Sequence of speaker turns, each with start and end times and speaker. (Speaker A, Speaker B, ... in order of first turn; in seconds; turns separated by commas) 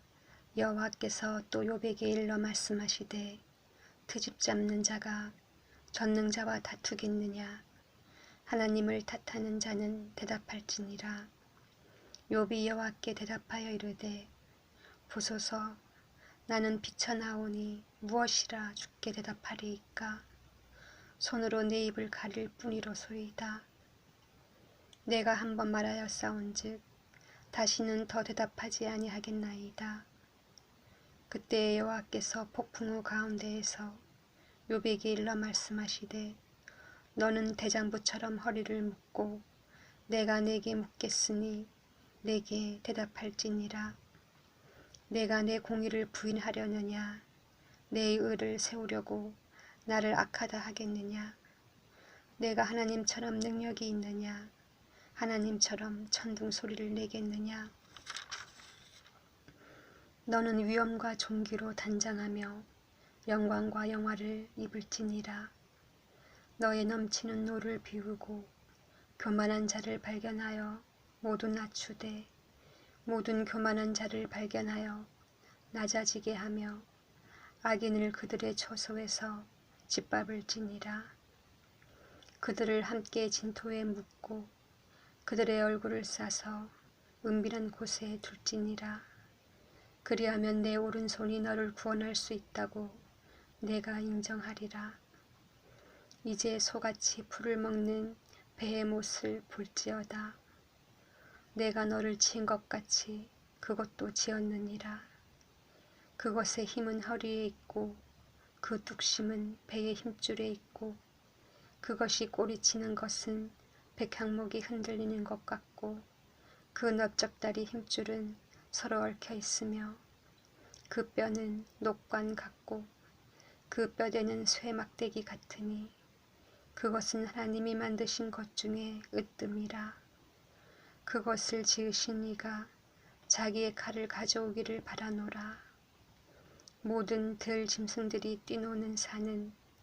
Speaker A: 0.6-3.4, Speaker A: 4.1-5.3, Speaker A: 5.9-7.6, Speaker A: 8.5-11.3, Speaker A: 12.3-14.3, Speaker A: 15.1-15.8, Speaker A: 16.5-20.2, Speaker A: 21.2-23.6, Speaker A: 25.1-26.8, Speaker A: 27.5-30.1, Speaker A: 31.3-34.0, Speaker A: 34.7-36.4, Speaker A: 37.2-39.5, Speaker A: 40.1-41.7, Speaker A: 42.2-44.0, Speaker A: 45.1-47.2, Speaker A: 47.9-51.4, Speaker A: 52.4-54.5, Speaker A: 55.2-57.7, Speaker A: 60.3-62.7, Speaker A: 63.3-65.5, Speaker A: 66.6-68.5, Speaker A: 69.2-72.3, Speaker A: 73.1-75.1, Speaker A: 75.7-76.9, Speaker A: 77.6-81.1, Speaker A: 82.4-84.5, Speaker A: 85.3-89.1, Speaker A: 90.0-93.0, Speaker A: 93.6-95.0, Speaker A: 96.2-100.4, Speaker A: 101.5-105.1, Speaker A: 106.2-108.0, Speaker A: 108.6-111.0, Speaker A: 111.8-116.0, Speaker A: 116.7-120.0, Speaker A: 120.9-122.9, Speaker A: 123.7-126.0, Speaker A: 126.8-130.0, Speaker A: 131.1-132.7, Speaker A: 133.3-135.6, Speaker A: 136.8-139.6